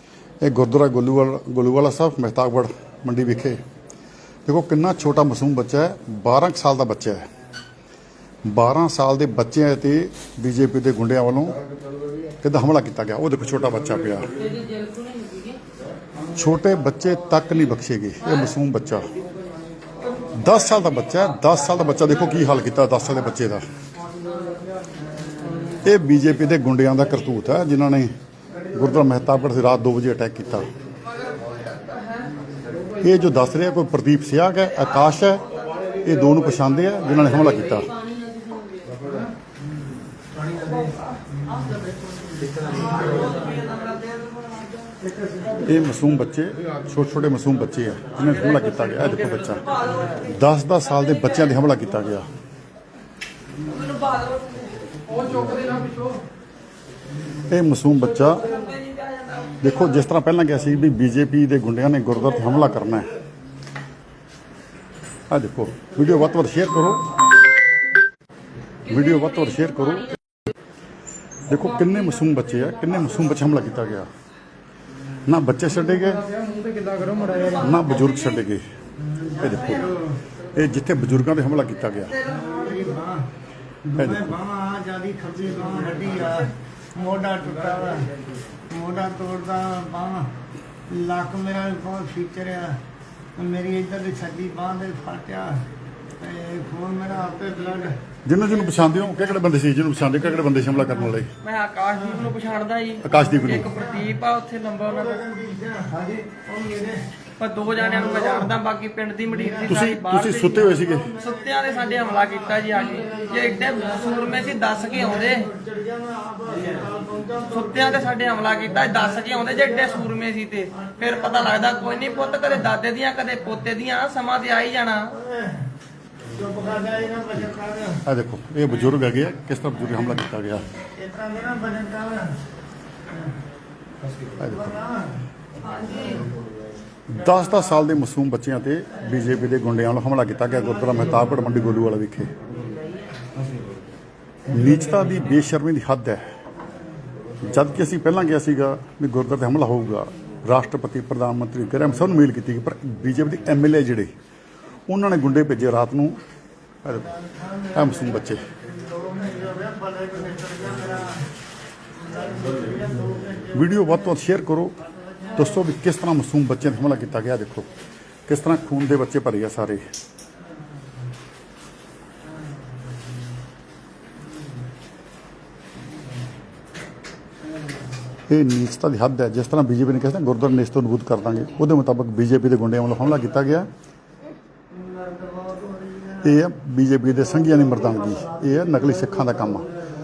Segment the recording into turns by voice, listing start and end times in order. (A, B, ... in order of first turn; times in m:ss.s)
0:00.4-0:03.6 A
0:04.5-0:07.2 A
0:08.5-0:11.6 A
0:12.4-0:14.3 A
0:14.6-0:15.4 B
0:16.4-0:19.1 A
0:20.3-0:23.6 A
0:25.8-0:28.1 A
0:28.7-0:30.7 A
0:33.0-0:35.4 A
0:36.0-0:37.9 A
0:42.8-0:44.9 B
0:45.6-0:52.3 A
0:49.7-0:50.2 B
0:53.6-0:54.8 B
0:55.4-0:55.7 B
0:57.5-0:58.4 A
0:58.3-0:59.7 B
0:59.6-1:03.1 A
1:05.3-1:07.0 A
1:08.9-1:10.2 A
1:11.5-1:14.1 A
1:15.2-1:16.2 A
1:17.0-1:17.3 C
1:17.3-1:18.0 B
1:17.5-1:18.6 A
1:19.4-1:19.9 A
1:19.7-1:20.0 C
1:20.5-1:22.2 A
1:22.2-1:23.3 C
1:23.9-1:28.1 C
1:23.9-1:24.4 A
1:28.7-1:30.3 C
1:30.9-1:32.8 C
1:33.4-1:35.6 C
1:36.2-1:38.0 C
1:38.2-1:41.3 A
1:41.4-1:45.2 B
1:43.0-1:43.7 A
1:44.9-1:47.1 C
1:47.4-1:55.5 B
1:47.8-1:48.4 C
1:49.6-1:51.1 A
1:51.0-1:57.9 C
1:57.5-2:05.2 B
2:00.9-2:01.3 C
2:05.2-2:05.6 C
2:06.3-2:08.0 C
2:08.0-2:10.7 A
2:11.0-2:12.4 C
2:14.4-2:14.8 A
2:14.6-2:15.2 C
2:15.8-2:16.2 B
2:17.1-2:22.3 A
2:24.5-2:26.2 A
2:27.4-2:34.1 A
2:34.9-2:36.2 A
2:36.8-2:37.1 A
2:37.7-2:38.4 A
2:38.8-2:41.2 C
2:42.0-2:43.6 C
2:43.5-2:44.7 A
2:45.4-2:47.7 A
2:48.3-2:49.8 A
2:58.3-3:03.7 A
3:04.7-3:06.3 C
3:06.2-3:09.7 A